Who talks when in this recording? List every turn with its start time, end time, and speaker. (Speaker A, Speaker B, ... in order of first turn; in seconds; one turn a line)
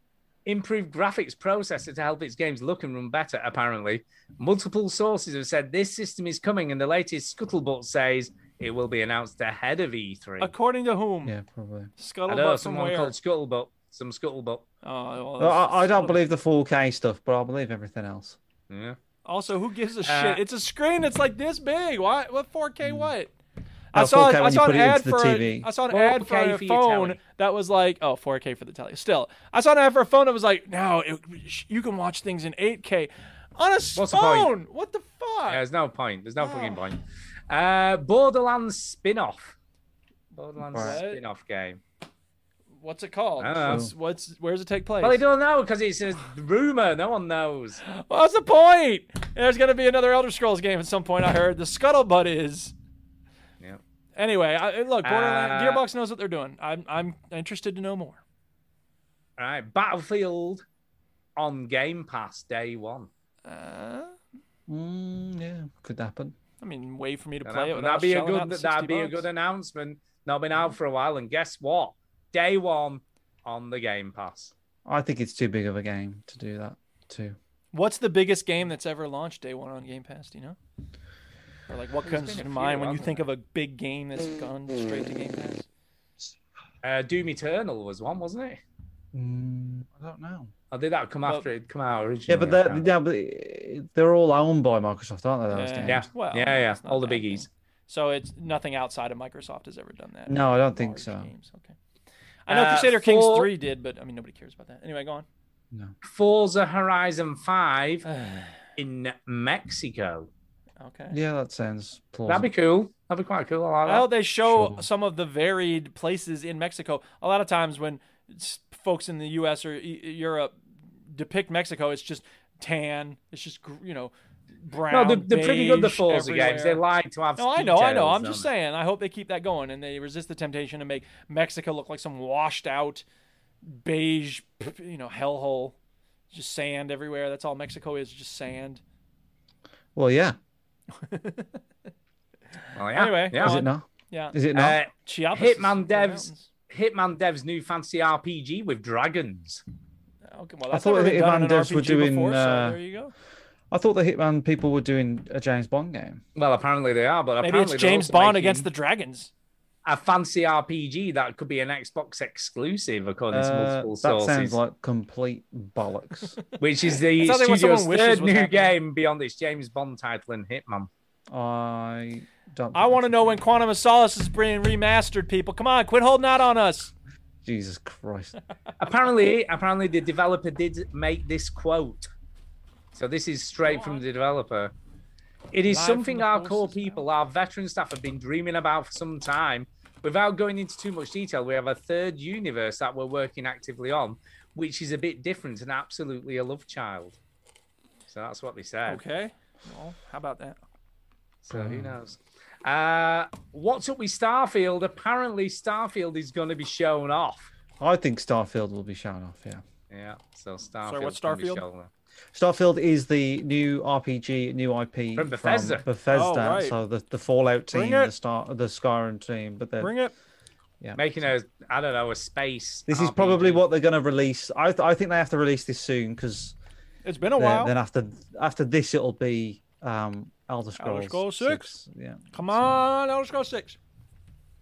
Speaker A: 0.5-10.5
Speaker B: 10.4-11.3
Speaker C: 11.2-11.9
Speaker B: 12.0-13.1
Speaker A: 12.3-14.6
Speaker B: 14.8-16.3
Speaker C: 15.4-18.4
Speaker A: 18.7-19.0
Speaker B: 19.2-23.3
Speaker A: 20.0-20.4
Speaker C: 22.8-23.1
Speaker B: 23.9-35.6
Speaker C: 23.9-25.7
Speaker A: 25.9-27.2
Speaker A: 34.0-34.5
Speaker A: 35.5-39.5
Speaker B: 36.4-36.8
Speaker A: 40.3-41.8
Speaker C: 40.7-41.0
Speaker B: 40.8-41.2
Speaker B: 42.8-45.2
Speaker A: 43.4-43.9
Speaker C: 43.6-43.9
Speaker A: 45.0-47.8
Speaker B: 47.9-52.7
Speaker B: 54.1-58.2
Speaker A: 55.0-55.8
Speaker A: 59.4-60.6
Speaker A: 61.4-63.1
Speaker B: 63.4-64.2
Speaker C: 64.7-66.3
Speaker B: 66.6-69.2
Speaker A: 67.4-74.5
Speaker C: 74.8-77.4
Speaker B: 77.7-80.5
Speaker B: 81.7-85.6
Speaker A: 82.0-83.3
Speaker A: 86.8-88.6
Speaker C: 89.1-90.5
Speaker A: 90.7-92.8
Speaker C: 92.3-96.0
Speaker B: 95.5-101.7
Speaker A: 95.8-97.5
Speaker C: 100.3-101.3
Speaker B: 102.5-105.3
Speaker A: 102.5-103.5
Speaker A: 106.0-108.0
Speaker B: 108.0-108.6
Speaker A: 108.8-110.3
Speaker B: 110.8-111.2
Speaker C: 111.1-112.5
Speaker A: 112.3-114.1
Speaker B: 113.8-120.6
Speaker C: 114.4-114.8
Speaker B: 121.1-126.8
Speaker A: 124.9-128.5
Speaker B: 127.4-133.0
Speaker B: 133.6-135.8
Speaker B: 136.3-138.8
Speaker C: 139.9-140.4
Speaker B: 141.0-141.6
Speaker A: 142.7-143.6
Speaker B: 142.9-144.4
Speaker C: 143.3-144.8
Speaker A: 144.5-149.6
Speaker B: 145.1-146.5
Speaker B: 150.3-153.1
Speaker C: 150.7-152.8
Speaker C: 153.7-156.2
Speaker A: 156.3-158.7
Speaker B: 157.4-159.3
Speaker A: 159.8-164.6
Speaker C: 163.3-166.4
Speaker A: 166.6-170.9
Speaker B: 167.2-168.7
Speaker C: 171.3-173.4
Speaker B: 172.7-176.9
Speaker C: 177.4-178.3
Speaker A: 178.8-182.1
Speaker A: 182.9-184.7
Speaker B: 183.6-184.1
Speaker A: 185.5-197.2
Speaker B: 185.7-187.1
Speaker A: 198.1-199.0
Speaker B: 198.9-200.6
Speaker A: 201.4-207.5
Speaker C: 201.5-202.0
Speaker C: 207.8-209.6
Speaker A: 209.9-211.9
Speaker B: 210.8-211.6
Speaker C: 212.3-219.9
Speaker A: 215.1-215.8
Speaker B: 216.1-216.8
Speaker B: 217.7-218.1
Speaker B: 219.8-220.1
Speaker A: 220.9-223.6
Speaker C: 222.9-226.6
Speaker B: 227.0-227.7
Speaker C: 227.4-232.8
Speaker B: 230.8-231.7
Speaker B: 232.3-233.8